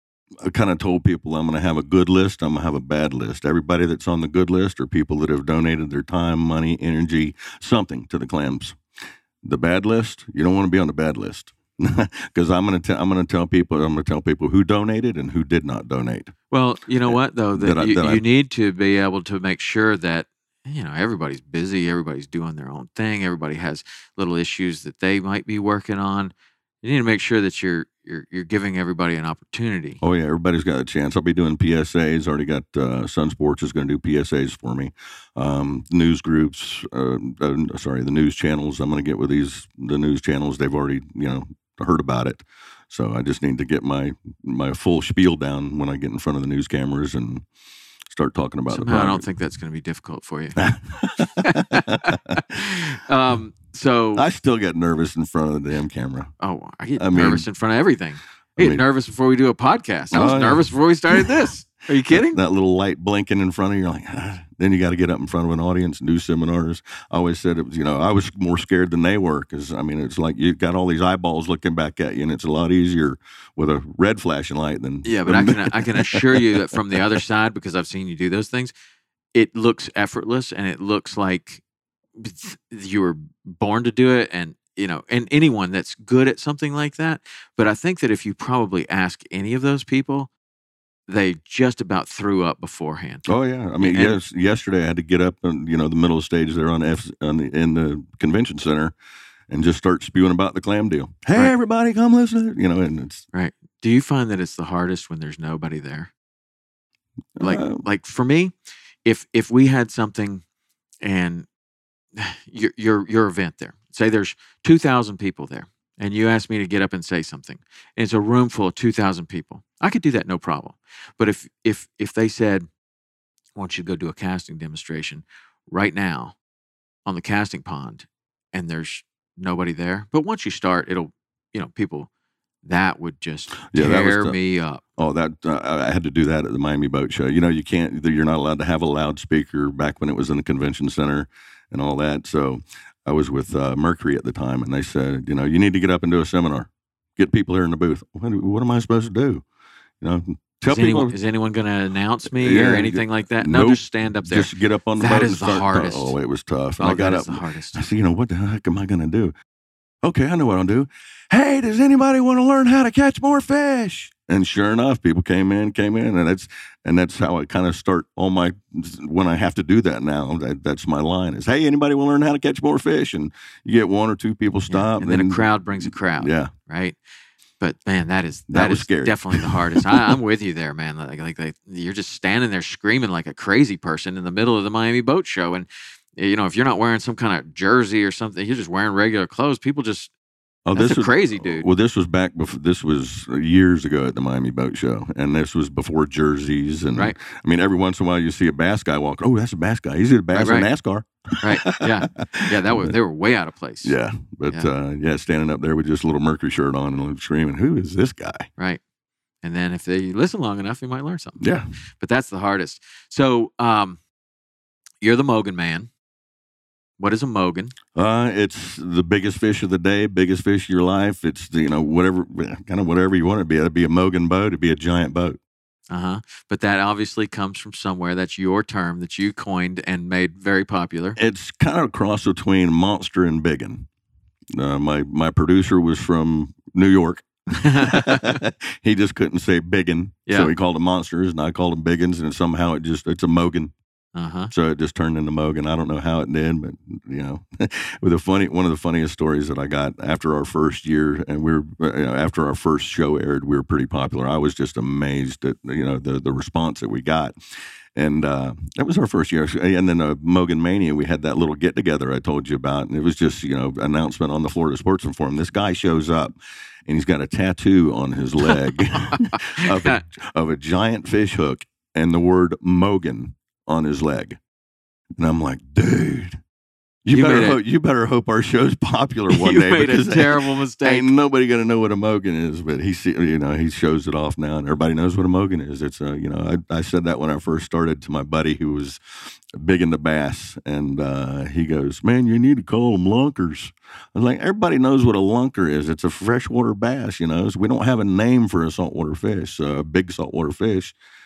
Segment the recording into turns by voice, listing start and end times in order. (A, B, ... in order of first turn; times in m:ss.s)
0:00.4-0:08.8 A
0:09.4-0:16.3 A
0:16.5-0:30.0 B
0:17.0-0:18.2 A
0:30.0-0:47.4 A
0:48.1-0:49.2 A
0:48.7-0:50.6 B
0:50.6-0:52.6 A
0:51.4-0:54.2 B
0:54.1-0:56.3 A
0:56.4-1:02.4 B
0:57.0-0:57.4 A
0:58.6-0:58.8 A
1:00.1-1:00.7 A
1:02.1-1:17.0 A
1:15.0-1:18.7 B
1:19.3-1:21.6 B
1:22.2-1:30.3 B
1:31.1-1:34.2 B
1:33.3-1:38.9 A
1:39.5-1:43.2 A
1:43.3-1:46.1 B
1:47.4-1:47.8 A
1:47.4-1:50.4 B
1:51.0-1:51.5 B
1:52.1-2:02.7 B
2:03.5-2:06.4 B
2:07.0-2:12.1 B
2:12.6-2:14.8 B
2:13.7-2:14.4 A
2:15.0-2:29.4 A
2:30.0-2:31.2 A
2:30.7-2:36.2 B
2:32.2-2:39.3 A
2:36.8-2:37.8 B
2:40.0-2:56.5 A
2:54.7-2:57.0 B
2:57.6-3:10.1 B
2:58.5-3:00.1 A
3:10.6-3:22.9 A
3:10.7-3:11.7 B
3:20.3-3:20.7 B
3:21.4-3:23.9 B
3:23.8-3:28.5 A
3:29.4-3:31.4 B
3:31.4-3:31.7 A
3:32.0-3:34.0 B
3:35.0-3:35.9 B
3:37.0-3:37.7 B
3:37.9-3:45.4 A
3:45.9-3:51.2 B
3:51.2-3:53.9 A
3:54.6-4:03.7 A
3:57.6-3:58.4 B
4:04.1-4:04.5 B
4:04.5-4:17.4 A
4:17.9-4:34.4 A
4:29.1-4:30.0 B
4:35.2-4:36.4 A
4:37.0-4:49.0 A
4:37.1-4:37.6 B
4:39.3-4:41.1 B
4:49.6-5:00.9 A